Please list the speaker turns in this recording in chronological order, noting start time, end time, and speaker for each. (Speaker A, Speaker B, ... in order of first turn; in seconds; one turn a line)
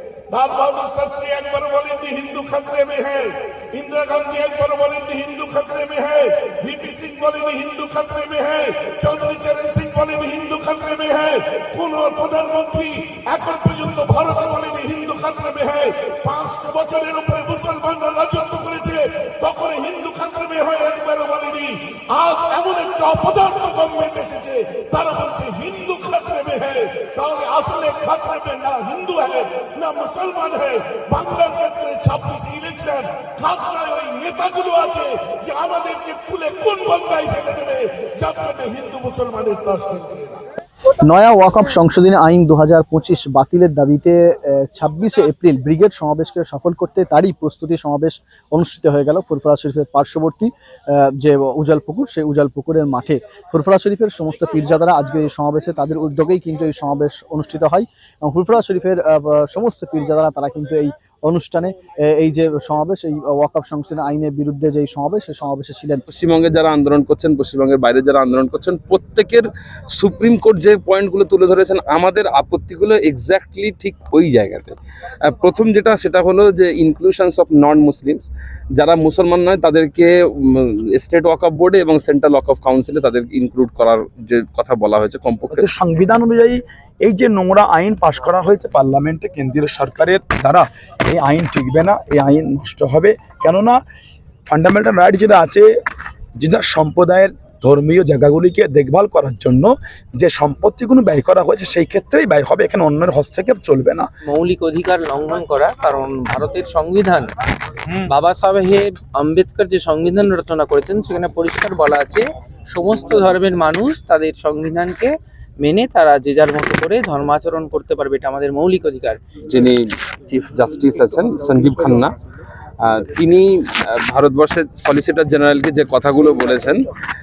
Speaker A: 0.3-40.4
Speaker B: 41.0-66.0
Speaker C: 66.1-74.7
Speaker C: 75.2-85.6
Speaker D: 85.5-93.8
Speaker D: 94.5-95.7
Speaker D: 96.4-104.0
Speaker E: 104.2-107.3
Speaker E: 108.1-119.2
Speaker C: 119.5-122.1
Speaker C: 122.8-126.8